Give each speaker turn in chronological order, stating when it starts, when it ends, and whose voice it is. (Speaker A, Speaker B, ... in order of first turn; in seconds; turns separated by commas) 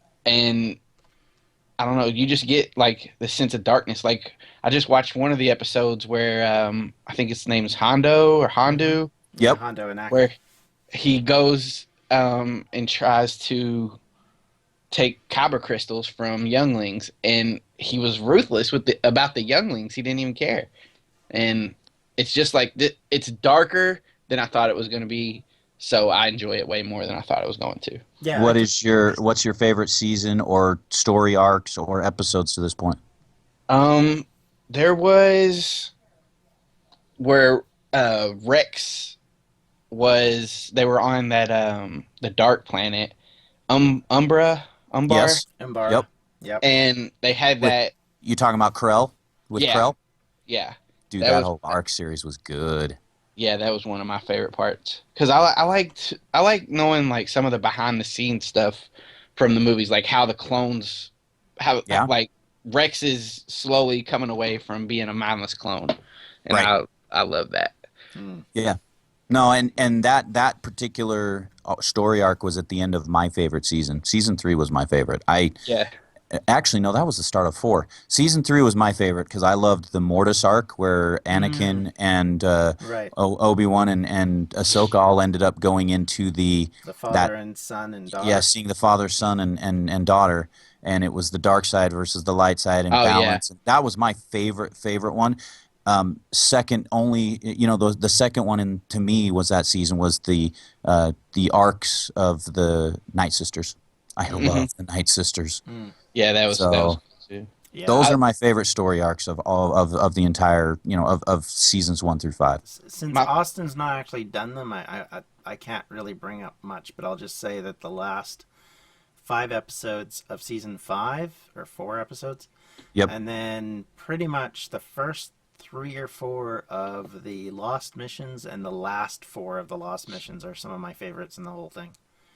Speaker A: 0.2-0.8, Speaker A: 1.8-9.1, Speaker B: 8.7-10.3, Speaker A: 10.9-14.0, Speaker A: 14.9-20.7, Speaker A: 21.3-28.0, Speaker B: 28.2-28.7, Speaker C: 28.3-33.0, Speaker A: 33.7-35.9, Speaker A: 37.2-39.2, Speaker A: 39.9-43.1, Speaker A: 43.7-45.4, Speaker C: 45.1-46.0, Speaker B: 45.6-46.6, Speaker A: 46.6-47.9, Speaker C: 47.6-50.0, Speaker A: 49.5-49.9, Speaker A: 50.5-51.7, Speaker C: 51.1-53.0, Speaker A: 53.4-67.8, Speaker B: 68.2-68.4, Speaker C: 69.3-75.5, Speaker A: 75.7-75.9, Speaker C: 76.3-87.3, Speaker B: 81.3-81.9, Speaker B: 82.8-83.1, Speaker B: 86.8-88.5, Speaker C: 88.2-105.6, Speaker A: 92.9-93.4, Speaker A: 104.3-104.7, Speaker B: 105.7-105.9, Speaker A: 106.1-107.5, Speaker C: 106.5-107.0, Speaker B: 107.7-108.2, Speaker C: 107.9-112.6, Speaker B: 112.6-118.5, Speaker B: 119.2-122.5, Speaker B: 123.0-131.9